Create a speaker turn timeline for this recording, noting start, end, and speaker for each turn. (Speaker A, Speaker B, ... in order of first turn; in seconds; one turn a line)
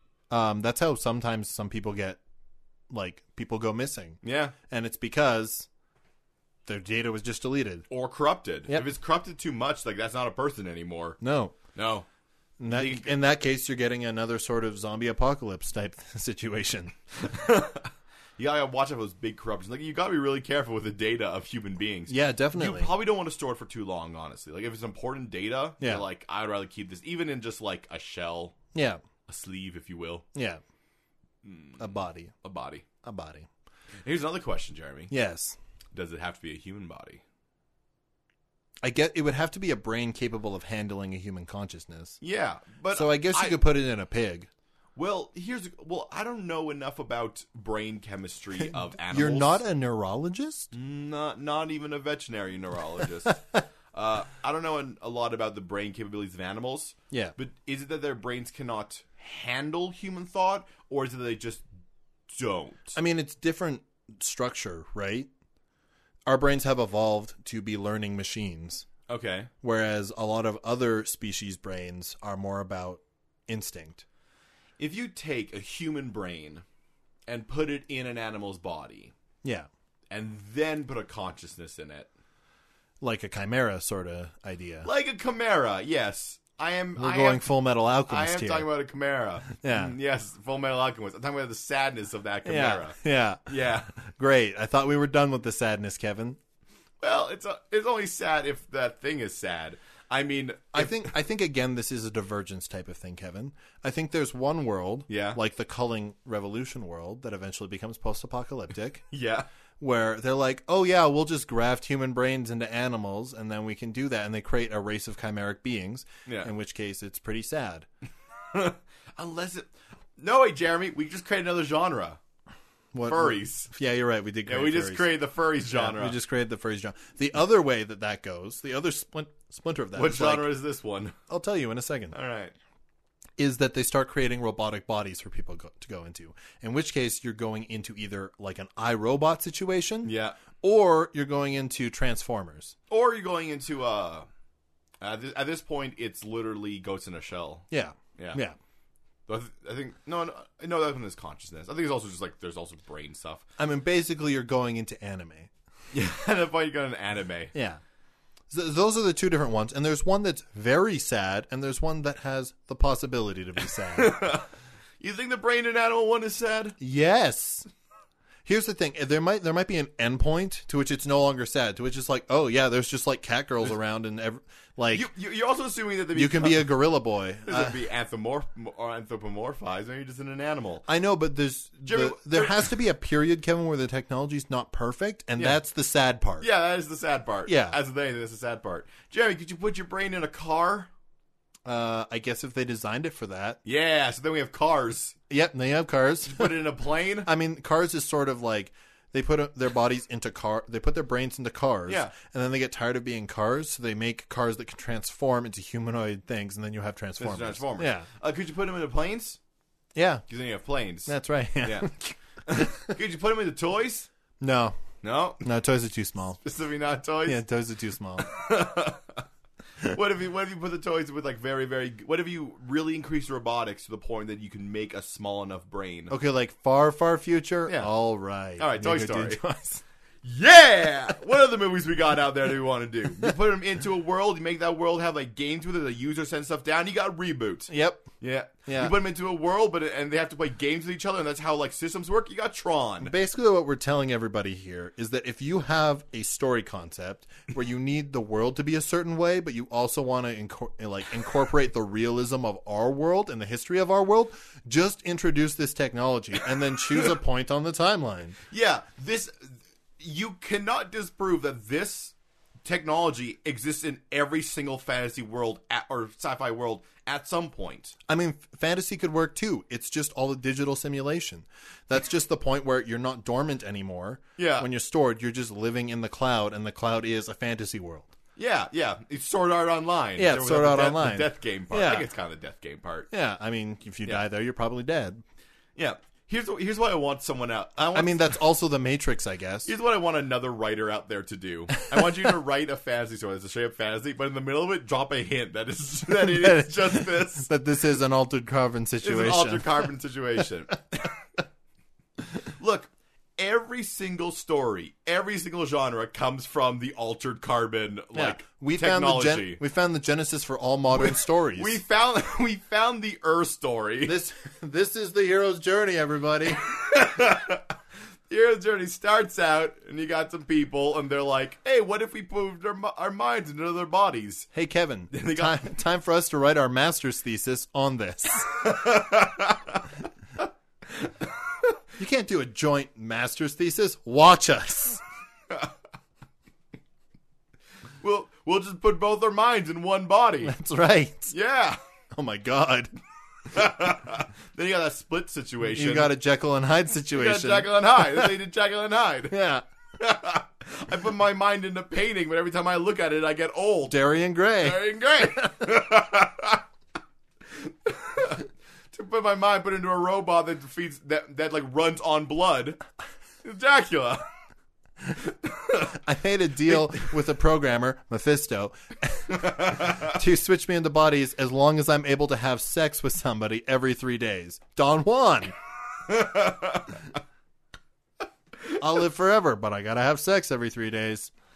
Speaker A: 0.3-2.2
Speaker A: 2.9-5.7
Speaker B: 4.2-4.5
Speaker A: 6.7-7.8
Speaker B: 7.9-11.2
Speaker A: 11.2-11.6
Speaker B: 11.7-12.1
Speaker A: 12.6-16.9
Speaker B: 12.7-13.1
Speaker B: 17.2-17.9
Speaker B: 18.4-28.6
Speaker A: 22.1-22.9
Speaker A: 28.7-29.0
Speaker B: 29.3-30.2
Speaker A: 30.3-30.6
Speaker B: 31.4-31.9
Speaker A: 31.8-32.3
Speaker B: 32.4-32.8
Speaker A: 33.0-33.5
Speaker B: 34.0-35.1
Speaker A: 35.1-35.6
Speaker B: 35.9-37.2
Speaker A: 38.8-42.2
Speaker B: 42.2-43.6
Speaker A: 42.9-44.5
Speaker B: 45.0-49.6
Speaker A: 48.6-50.7
Speaker B: 50.7-61.6
Speaker B: 62.3-63.0
Speaker A: 63.0-65.3
Speaker A: 66.2-68.8
Speaker B: 69.1-69.5
Speaker A: 69.6-74.0
Speaker B: 74.8-76.6
Speaker B: 77.3-79.1
Speaker B: 80.1-82.1
Speaker A: 83.0-84.9
Speaker B: 84.8-87.4
Speaker A: 87.0-88.7
Speaker B: 88.1-93.9
Speaker A: 89.6-89.9
Speaker A: 92.4-96.4
Speaker B: 97.0-101.1
Speaker A: 100.7-109.0
Speaker B: 105.1-105.4
Speaker B: 109.1-109.5
Speaker A: 109.8-117.9
Speaker B: 116.2-116.5
Speaker B: 118.5-122.2
Speaker A: 122.9-125.1
Speaker B: 123.0-123.7
Speaker B: 124.5-126.2
Speaker A: 125.7-130.5
Speaker B: 129.9-131.2
Speaker A: 131.3-132.1
Speaker B: 132.1-132.5
Speaker A: 133.4-142.7
Speaker B: 140.0-140.4
Speaker B: 142.9-144.3
Speaker B: 145.0-148.4
Speaker A: 147.7-148.6
Speaker B: 149.3-153.4
Speaker A: 153.6-155.5
Speaker B: 155.9-157.5
Speaker A: 157.5-157.8
Speaker A: 158.5-164.2
Speaker B: 163.9-164.5
Speaker B: 165.0-166.8
Speaker A: 166.8-167.7
Speaker A: 168.4-175.1
Speaker B: 174.9-176.7
Speaker A: 176.1-177.8
Speaker B: 177.5-180.8
Speaker A: 180.9-186.5
Speaker B: 181.8-182.7
Speaker B: 186.4-190.9
Speaker A: 187.5-187.8
Speaker A: 191.6-193.6
Speaker B: 193.6-195.2
Speaker A: 195.3-196.6
Speaker B: 196.3-197.3
Speaker A: 197.2-208.1
Speaker B: 201.9-202.1
Speaker B: 207.2-209.4
Speaker A: 209.9-210.2
Speaker B: 210.3-211.9
Speaker A: 211.1-212.9
Speaker B: 212.4-214.1
Speaker A: 214.4-214.8
Speaker B: 215.0-215.4
Speaker A: 215.4-216.4
Speaker B: 216.4-217.4
Speaker A: 217.2-218.3
Speaker B: 218.2-219.2
Speaker B: 219.8-226.1
Speaker A: 226.1-229.8
Speaker B: 228.6-229.4
Speaker B: 230.2-243.1
Speaker A: 237.7-238.1
Speaker A: 238.7-239.0
Speaker A: 243.0-258.4
Speaker B: 258.5-262.1
Speaker B: 262.6-267.9
Speaker A: 268.1-278.1
Speaker B: 274.4-274.7
Speaker B: 278.4-283.1
Speaker A: 280.2-282.1
Speaker A: 283.1-285.2
Speaker B: 285.8-288.4
Speaker A: 287.9-289.7
Speaker B: 289.6-297.5
Speaker A: 296.1-299.9
Speaker B: 299.0-300.7
Speaker B: 302.4-309.6
Speaker A: 308.1-311.8
Speaker B: 310.9-314.2
Speaker A: 314.1-316.6
Speaker B: 316.6-317.6
Speaker B: 318.3-324.5
Speaker A: 324.5-328.7
Speaker B: 325.1-325.6
Speaker B: 328.6-329.9
Speaker B: 330.9-331.7
Speaker A: 332.0-335.0
Speaker B: 338.0-340.5
Speaker A: 340.4-341.3
Speaker B: 341.3-341.8
Speaker A: 342.1-342.9
Speaker B: 343.5-346.1
Speaker A: 345.7-348.3
Speaker B: 347.1-349.4
Speaker A: 349.3-349.6
Speaker B: 350.0-354.0
Speaker A: 353.9-355.7
Speaker B: 354.6-356.6
Speaker B: 357.5-362.8
Speaker B: 363.4-364.2
Speaker B: 365.2-365.9
Speaker A: 365.8-375.5
Speaker B: 366.7-367.1
Speaker B: 369.3-370.1
Speaker B: 376.1-377.1
Speaker A: 378.8-381.3